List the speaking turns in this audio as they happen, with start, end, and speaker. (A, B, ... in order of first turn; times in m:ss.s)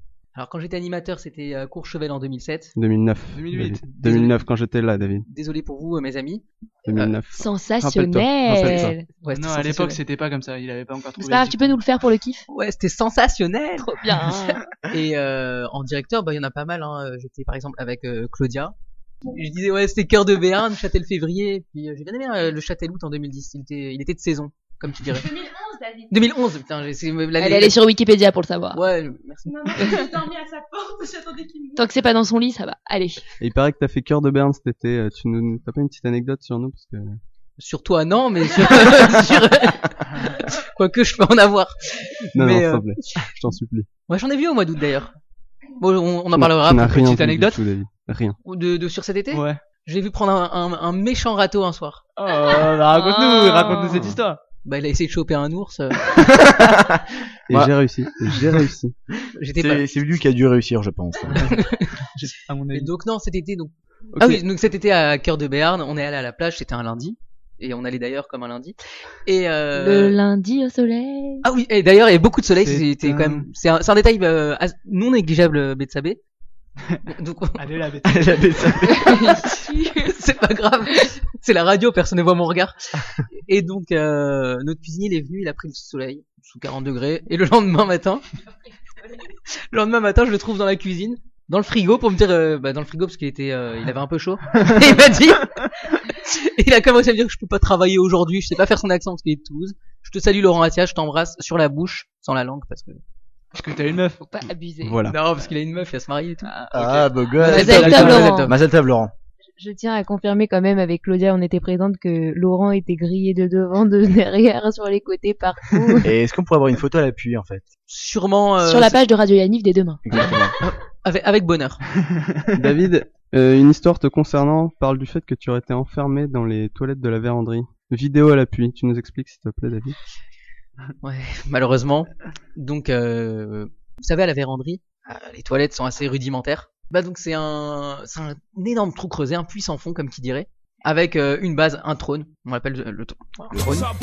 0:00.4-0:02.8 A
0:02.8-0:05.3 B
0:03.3-0:04.4 C
0:05.3-0:07.1 A
0:06.9-0:09.0 B
0:07.3-0:09.0 D
0:09.2-0:10.0 A
0:09.3-0:11.8 C
0:11.2-0:12.4 D
0:12.5-0:13.9 A
0:13.8-0:14.6 D
0:14.9-0:18.7 A
0:19.3-0:25.3 A
0:25.1-0:26.1 E
0:26.1-0:27.8 A
0:27.4-0:28.8 D
0:28.7-0:30.0 A
0:29.5-0:31.8 E
0:31.8-0:33.2 D
0:33.4-0:37.2 B
0:37.6-0:43.3 A
0:42.3-0:43.9 B
0:44.1-0:45.1 A
0:45.8-0:47.2 A
0:46.3-0:48.4 B
0:47.1-0:47.6 C
0:48.4-0:52.0 A
0:49.3-0:49.6 C
0:52.2-0:54.4 C
0:52.9-0:54.1 D
0:54.6-0:56.0 A
0:56.2-0:57.7 F
0:57.5-0:58.9 B
0:59.4-0:59.9 A
0:59.6-1:01.4 F
1:01.4-1:01.8 A
1:02.2-1:02.9 C
1:02.7-1:10.2 A
1:04.1-1:04.4 B
1:09.7-1:11.4 D
1:11.4-1:16.2 A
1:12.6-1:13.5 C
1:17.1-1:17.8 A
1:17.6-1:18.6 C
1:18.0-1:19.2 F
1:18.8-1:20.1 D
1:19.2-1:28.2 A
1:29.5-1:43.0 A
1:43.5-1:44.3 C
1:44.3-1:45.0 D
1:44.8-1:45.2 B
1:45.0-1:46.5 A
1:46.4-1:48.4 C
1:46.7-1:49.1 F
1:47.4-1:48.6 A
1:47.5-1:48.5 D
1:49.6-1:56.1 G
1:56.0-1:57.7 F
1:57.9-1:59.0 A
1:58.6-2:00.0 D
2:00.0-2:00.6 F
2:00.2-2:01.8 A
2:02.6-2:10.0 B
2:11.0-2:23.9 A
2:23.5-2:23.9 F